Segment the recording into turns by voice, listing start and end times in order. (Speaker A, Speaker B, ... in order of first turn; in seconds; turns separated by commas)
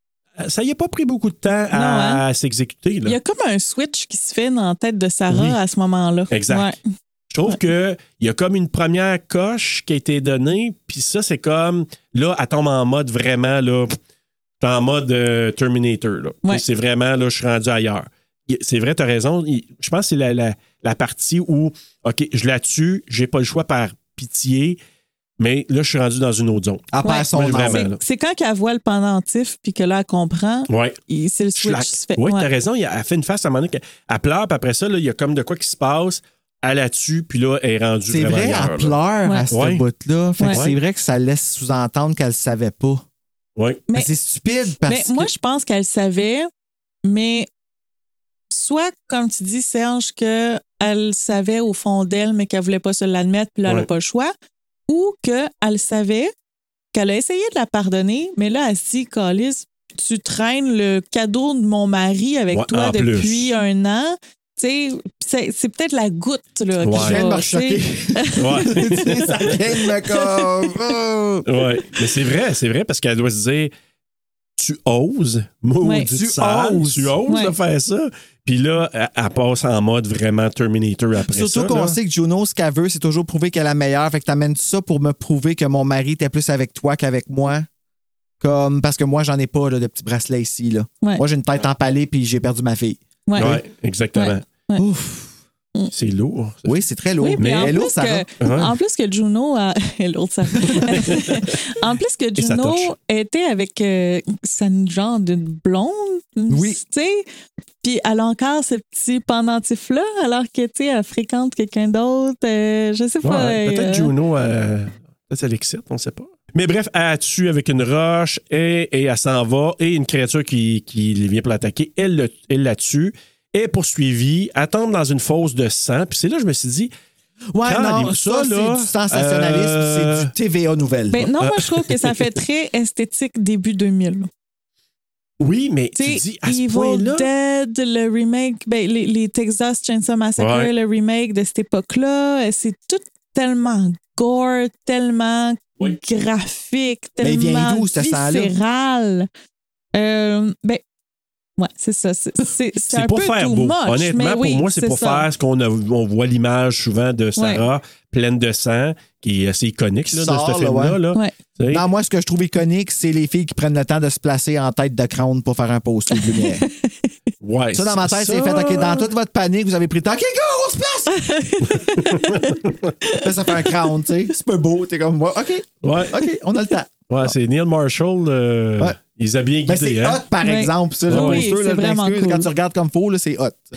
Speaker A: 0.4-3.2, Speaker B: 1.7-2.2, Speaker B: 3.0-6.8, Speaker A: 5.3-5.6, Speaker A: 6.3-6.8, Speaker A: 7.3-14.0, Speaker A: 14.6-24.8, Speaker A: 25.4-28.0, Speaker C: 26.9-27.9, Speaker B: 27.0-32.5, Speaker A: 30.7-31.0, Speaker A: 31.6-39.0, Speaker C: 38.1-43.0, Speaker A: 39.5-39.8, Speaker A: 40.5-40.8, Speaker A: 43.6-43.8, Speaker C: 43.9-45.3, Speaker B: 44.9-46.5, Speaker B: 47.0-47.5, Speaker B: 48.5-54.3, Speaker B: 54.9-56.3, Speaker B: 56.9-68.7, Speaker A: 62.5-63.5, Speaker A: 66.8-67.2, Speaker C: 66.9-71.8, Speaker A: 68.3-69.6, Speaker B: 70.1-70.5, Speaker A: 71.5-73.7, Speaker A: 74.6-82.0, Speaker B: 75.8-76.1, Speaker C: 76.1-77.1, Speaker B: 77.3-77.5, Speaker C: 81.3-87.7, Speaker C: 88.4-93.6, Speaker B: 93.3-93.6, Speaker A: 93.4-94.4, Speaker B: 94.2-94.9, Speaker C: 94.8-95.3, Speaker A: 95.9-96.7, Speaker C: 96.7-98.3, Speaker B: 97.2-107.3, Speaker A: 97.4-97.8, Speaker A: 98.4-98.7, Speaker A: 100.7-101.5, Speaker A: 102.4-102.9, Speaker C: 106.5-106.8, Speaker B: 107.8-114.1, Speaker A: 113.2-126.9, Speaker C: 127.5-131.3, Speaker A: 127.6-130.3, Speaker B: 131.1-134.3, Speaker A: 131.4-132.2, Speaker A: 135.4-137.3, Speaker B: 136.0-149.3, Speaker A: 140.4-140.7, Speaker C: 147.2-148.6, Speaker B: 149.9-150.8, Speaker B: 151.6-155.3, Speaker A: 152.9-161.8, Speaker B: 157.4-157.6, Speaker C: 160.1-161.0, Speaker C: 161.7-166.7, Speaker B: 166.1-167.1, Speaker A: 167.4-169.1, Speaker C: 167.7-171.3, Speaker B: 171.2-173.7, Speaker A: 171.6-172.9, Speaker C: 173.2-177.3, Speaker A: 175.8-176.2, Speaker A: 177.1-180.2, Speaker C: 179.7-183.6, Speaker B: 180.4-182.5, Speaker A: 181.1-181.5